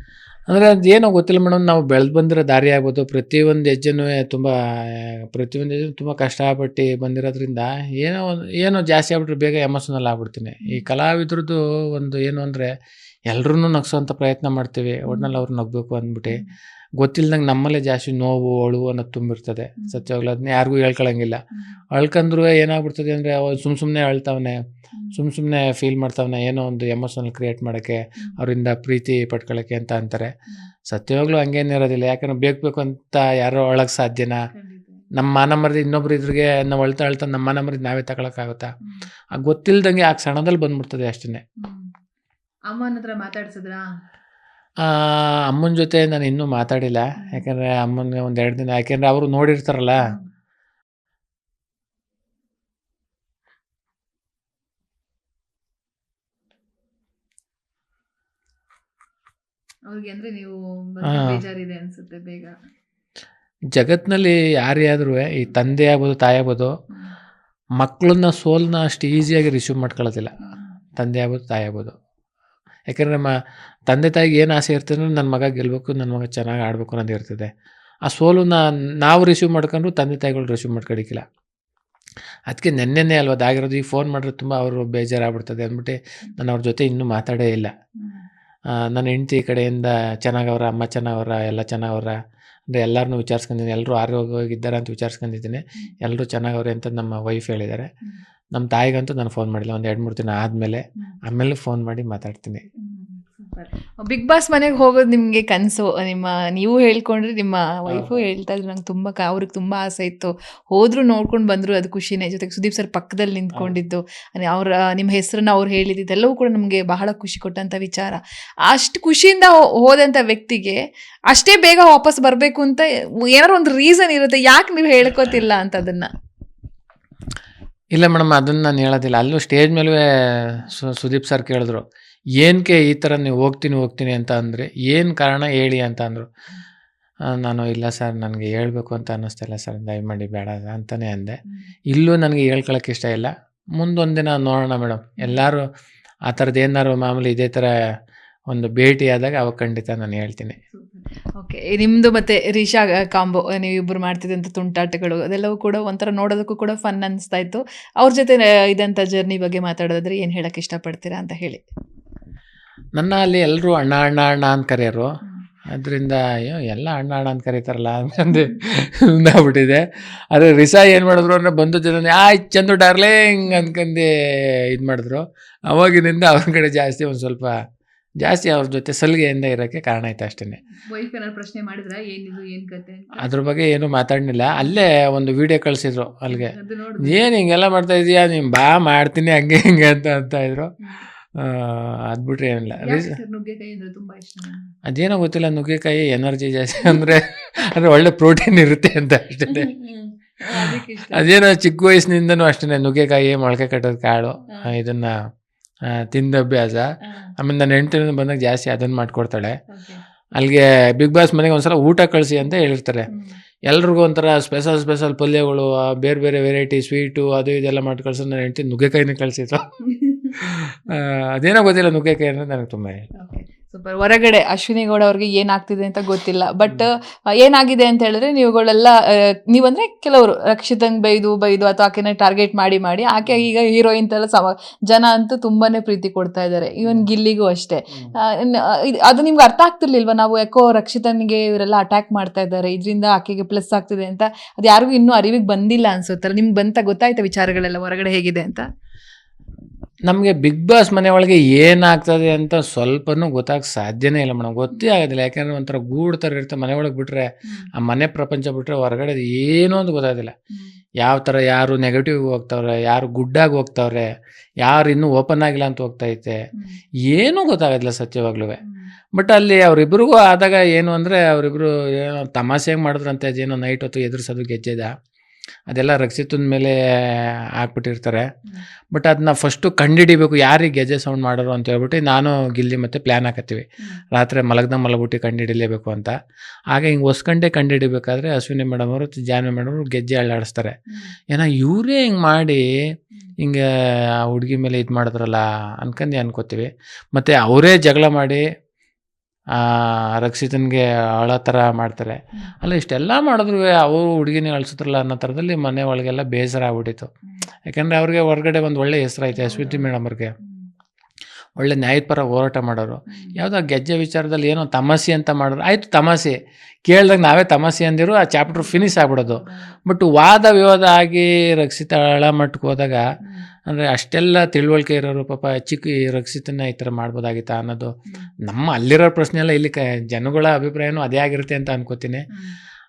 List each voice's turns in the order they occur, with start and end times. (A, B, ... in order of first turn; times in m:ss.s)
0:00.5-0:12.7 A
0:13.3-0:16.4 A
0:15.1-0:15.4 B
0:17.0-0:21.4 A
0:19.8-0:20.1 B
0:21.5-0:21.8 B
0:21.9-0:24.6 A
0:25.2-0:30.3 A
0:30.9-0:34.4 A
0:34.5-0:35.1 B
0:35.1-0:38.7 A
0:38.8-0:39.1 B
0:39.4-0:41.4 A
0:41.6-0:41.9 B
0:42.7-0:43.8 B
0:44.8-0:50.0 A
0:47.2-0:47.5 B
0:59.9-1:02.5 B
1:01.1-1:01.4 A
1:03.7-1:06.7 A
1:07.8-1:10.3 A
1:10.5-1:10.7 B
1:11.0-1:12.0 A
1:12.9-1:13.3 A
1:13.9-1:17.5 A
1:18.1-1:21.2 A
1:22.5-1:27.7 A
1:28.7-1:32.2 A
1:32.7-1:37.9 A
1:38.5-1:42.6 A
1:42.8-2:06.1 B
2:08.0-2:11.8 A
2:12.4-2:16.3 A
2:17.3-2:21.4 A
2:21.9-2:25.7 A
2:26.3-2:27.7 A
2:28.5-2:30.6 A
2:30.7-2:41.6 B
2:43.0-2:45.2 A
2:45.7-2:57.6 A
2:53.4-2:53.7 B
2:58.2-3:00.6 A
3:00.7-3:03.4 B
3:03.2-3:10.7 A
3:06.3-3:07.3 B
3:11.4-3:13.2 A
3:12.8-3:14.7 B
3:14.9-3:19.8 A
3:19.5-3:21.3 B
3:20.5-3:25.2 A
3:25.9-3:29.6 A
3:27.0-3:27.3 B
3:29.7-3:30.0 B
3:30.4-3:33.1 A
3:33.7-3:39.7 A
3:39.9-3:40.4 B
3:40.4-3:43.1 A
3:43.2-4:08.7 B
4:10.1-4:20.3 A
4:20.5-4:20.8 B
4:21.0-4:24.1 A
4:24.6-4:26.4 A
4:27.0-4:28.6 A
4:28.6-4:28.9 B
4:29.2-4:34.9 A
4:35.7-4:38.3 A
4:38.9-4:46.1 A
4:46.7-4:50.8 A
4:51.3-4:52.7 A
4:53.4-4:58.4 A
4:59.5-5:07.1 A
5:07.7-5:10.3 A
5:09.4-5:09.9 B
5:10.4-5:10.7 B
5:11.6-5:16.4 A
5:13.1-5:13.4 B
5:16.9-5:23.0 A
5:18.5-5:19.8 B
5:23.2-5:23.5 B
5:23.7-5:32.2 A